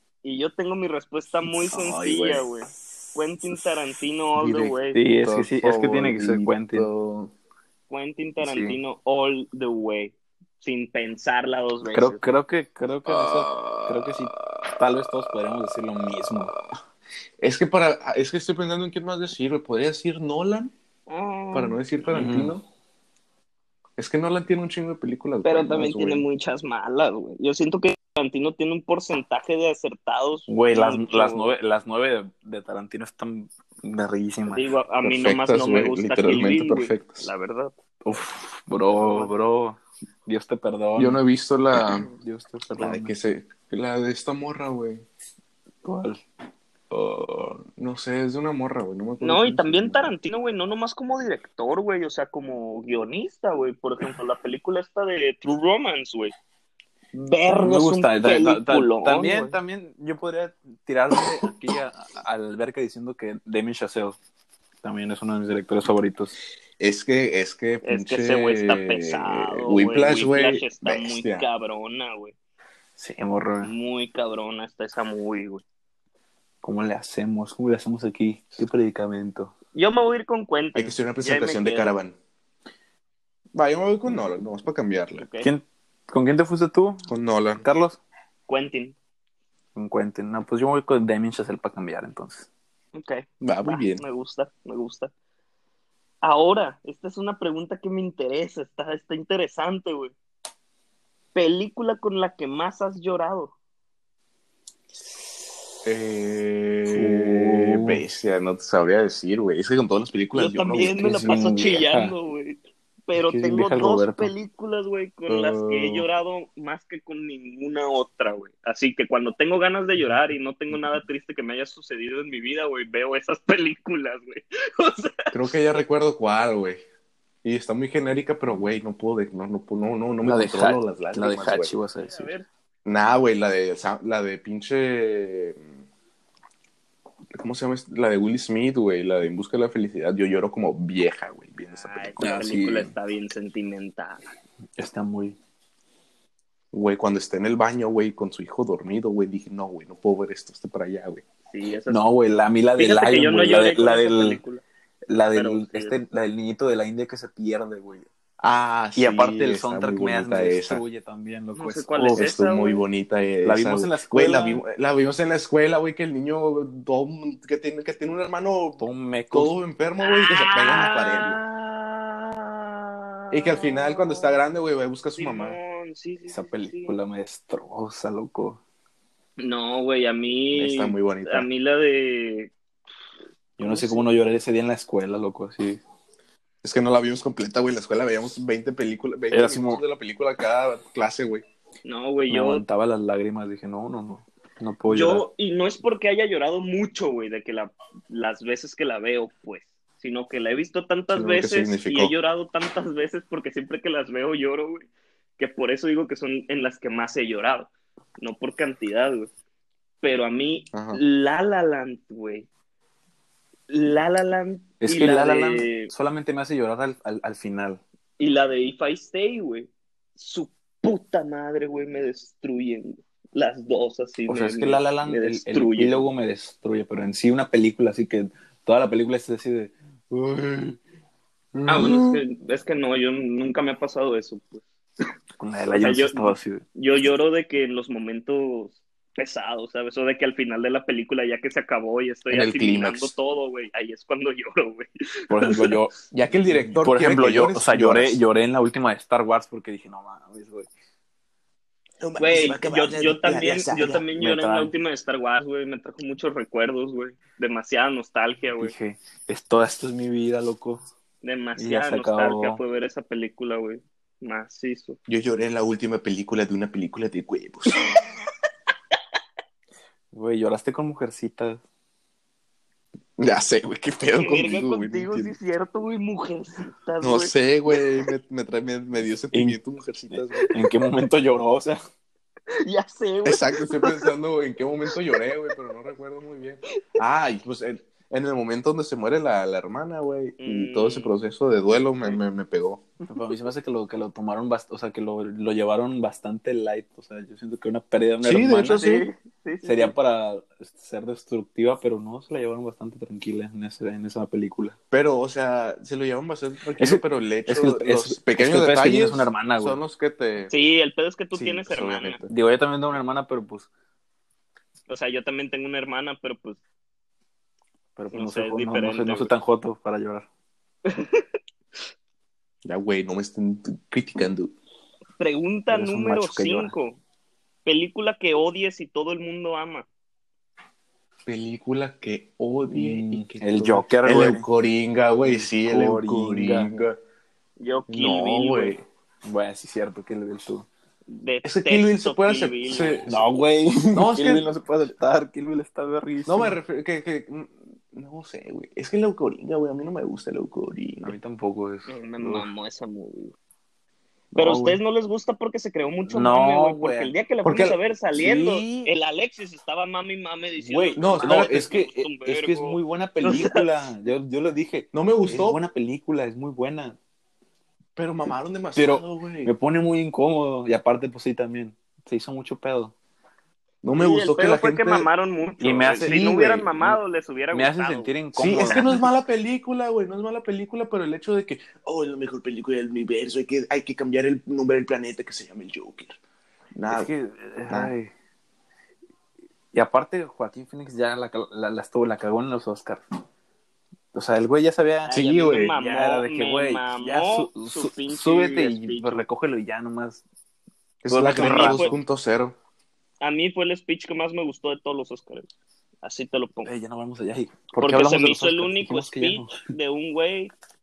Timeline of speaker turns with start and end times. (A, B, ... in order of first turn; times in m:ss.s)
0:00.2-0:05.0 A
0:01.7-0:02.4 B
0:04.4-0:07.3 B
0:04.9-0:06.9 C
0:07.9-0:12.3 A
0:08.4-0:08.8 C
0:11.9-0:16.5 C
0:13.1-0:14.6 B
0:17.4-0:20.7 B
0:21.1-0:22.3 A
0:21.5-0:22.6 B
0:22.1-0:22.6 C
0:24.0-0:26.2 B
0:25.4-0:31.5 A
0:30.5-0:34.7 C
0:34.5-0:37.7 A
0:35.0-0:37.3 B
0:38.0-0:41.2 C
0:41.0-0:42.1 B
0:42.0-0:43.1 C
0:42.8-0:45.0 B
0:45.8-0:46.2 C
0:46.9-0:47.5 C
0:47.6-0:50.1 B
0:49.2-0:56.3 A
0:57.1-0:59.6 A
0:57.6-1:04.2 C
1:04.8-1:06.3 C
1:06.8-1:11.4 B
1:07.8-1:12.3 A
1:13.0-1:13.7 C
1:13.6-1:15.6 A
1:16.6-1:19.5 C
1:19.7-1:21.9 A
1:20.7-1:22.2 B
1:23.5-1:25.2 B
1:25.2-1:25.5 A
1:25.4-1:27.1 C
1:27.1-1:27.6 B
1:27.6-1:28.0 C
1:28.5-1:28.9 A
1:29.7-1:32.5 C
1:32.9-1:35.1 A
1:33.4-1:34.0 B
1:36.2-1:40.1 A
1:41.3-1:43.5 A
1:45.8-1:51.5 B
1:46.9-1:48.0 C
1:50.3-2:05.4 A
1:51.0-1:52.1 C
1:53.2-1:54.3 C
1:55.3-1:56.0 B
2:05.3-2:06.8 B
2:07.4-2:11.7 B
2:10.2-2:12.3 C
2:12.0-2:12.5 A
2:12.8-2:15.7 B
2:17.3-2:22.5 B
2:21.6-2:24.2 A
2:22.2-2:22.9 C
2:24.8-2:25.4 C
2:26.7-2:31.2 B
2:31.5-2:32.0 A
2:31.9-2:34.4 C
2:32.8-2:34.6 A
2:35.1-2:38.1 C
2:35.3-2:36.0 A
2:38.4-2:40.8 B
2:39.0-2:42.3 C
2:41.5-2:42.8 A
2:42.0-2:51.4 B
2:43.4-2:44.6 C
2:48.8-2:49.5 C
2:50.0-2:54.4 A
2:53.3-2:55.6 B
2:55.2-2:57.0 A
2:56.3-2:58.6 C
2:59.4-3:02.5 A
3:00.5-3:01.5 B
3:03.6-3:05.8 C
3:03.6-3:04.0 A
3:06.6-3:11.4 B
3:09.3-3:09.8 C
3:11.8-3:12.6 A
3:12.3-3:15.2 C
3:14.9-3:24.9 A
3:21.1-3:22.1 B
3:25.4-3:29.3 A
3:30.0-3:32.5 A
3:30.7-3:31.0 B
3:33.7-3:35.9 A
3:34.8-3:37.8 C
3:38.2-3:46.1 A
3:44.3-3:50.8 C
3:51.5-3:52.2 B
3:51.7-3:54.6 A
3:55.4-3:56.6 C
3:55.7-4:05.8 A
4:02.3-4:03.1 B
4:05.3-4:06.0 C
4:06.1-4:08.2 B
4:06.5-4:10.7 C
4:12.0-4:14.0 B
4:12.2-4:18.7 A
4:14.1-4:14.7 C
4:18.6-4:20.8 C
4:21.2-4:25.0 A
4:21.6-4:22.6 C
4:25.1-4:28.0 B
4:27.7-4:28.0 A
4:30.1-4:31.6 C
4:33.2-4:35.3 B
4:34.1-4:37.8 A
4:37.0-4:40.5 B
4:39.3-4:39.6 C
4:40.1-4:41.8 C
4:42.5-4:44.1 A
4:43.2-4:52.8 B
4:50.4-4:51.1 A
4:53.1-4:58.8 C
4:58.2-4:59.1 B
4:58.7-4:59.9 A
4:59.6-5:04.8 C
5:04.9-5:10.5 B
5:06.8-5:09.8 C
5:10.5-5:12.2 A
5:11.3-5:12.3 B
5:12.3-5:13.7 C
5:14.9-5:16.6 A
5:18.0-5:20.3 C
5:18.1-5:19.3 A
5:20.8-5:21.2 A
5:22.6-5:24.5 B
5:25.2-5:27.0 A
5:25.7-5:26.7 C
5:27.6-5:29.8 A
5:31.2-5:37.0 B
5:32.7-5:34.4 C
5:35.2-5:36.8 C
5:37.6-5:38.8 A
5:37.9-5:38.8 B
5:39.2-5:40.7 C
5:41.1-5:43.1 A
5:41.4-5:43.2 B
5:43.0-5:46.6 C
5:43.9-5:44.5 B
5:46.2-5:51.1 B
5:51.0-5:52.5 C
5:51.9-5:53.3 A
5:54.3-6:03.7 A
5:54.4-5:54.8 C
5:56.1-5:57.1 C
5:57.4-5:57.8 B
5:58.1-5:58.9 C
6:00.6-6:07.0 C
6:01.0-6:01.9 B
6:04.9-6:05.6 B
6:08.0-6:09.5 B
6:08.7-6:12.9 C
6:13.8-6:15.1 B
6:14.0-6:18.8 A
6:15.6-6:17.0 C
6:17.5-6:19.1 C
6:18.4-6:26.2 B
6:26.7-6:27.1 B
6:26.9-6:28.1 C
6:27.7-6:27.9 B
6:29.7-6:33.0 C
6:34.1-6:40.2 C
6:35.1-6:35.7 B
6:35.1-6:39.2 A
6:41.0-6:42.6 B
6:41.1-6:42.0 C
6:41.3-6:41.9 A
6:43.2-6:45.5 A
6:46.0-6:46.7 A
6:46.6-6:49.6 C
6:47.8-6:50.5 A